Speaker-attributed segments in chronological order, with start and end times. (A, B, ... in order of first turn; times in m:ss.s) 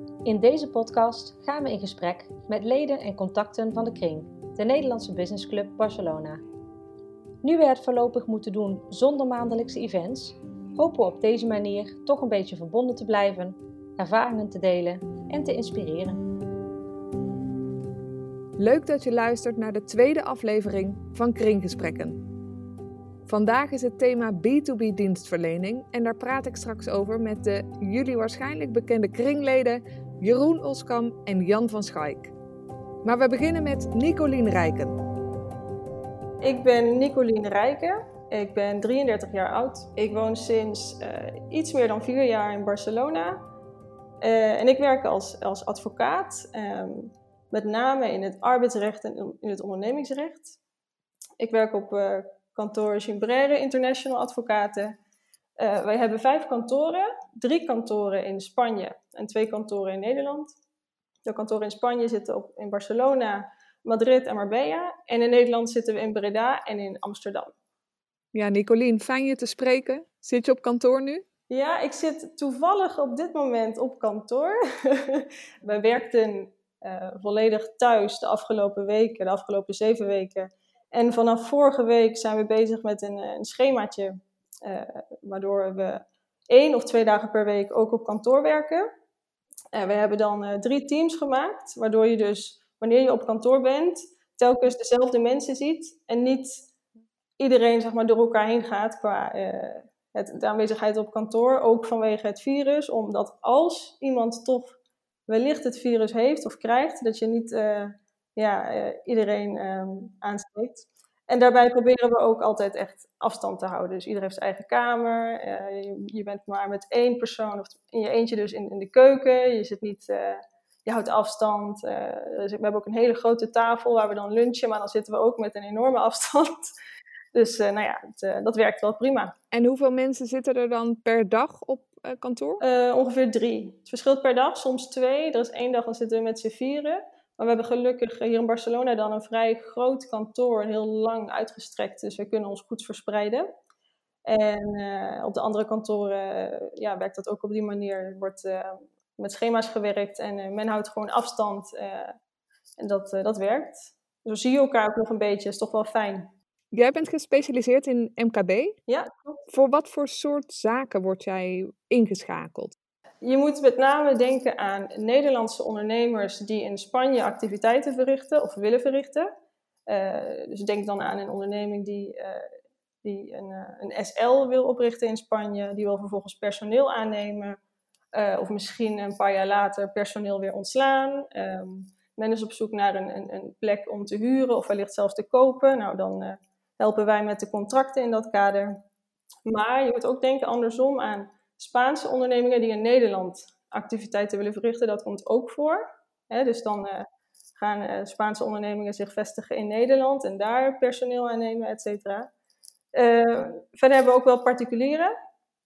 0:00.2-0:06.4 A
0:07.4-0:16.2 A
0:18.6-0:22.2 B
0:23.3-0:32.3 B
0:33.0-0:35.0 B
0:36.4-0:43.4 C
0:44.2-0:50.6 C
0:51.4-0:55.0 C
0:55.6-1:00.5 C
1:01.2-1:07.5 C
1:08.3-1:11.2 B
1:11.5-1:28.9 C
1:29.7-1:36.6 C
1:37.4-1:44.8 C
1:45.3-2:06.7 C
2:07.3-2:09.3 C
2:09.5-2:12.6 B
2:12.6-2:23.5 C
2:24.2-2:32.2 C
2:32.8-2:36.3 C
2:36.7-2:38.8 B
2:38.9-2:39.4 C
2:39.5-2:42.7 B
2:43.2-2:49.3 C
2:49.9-2:52.5 C
2:53.0-2:57.6 C
2:58.1-3:08.8 C
3:09.4-3:17.0 C
3:17.6-3:22.3 C
3:22.9-3:25.1 C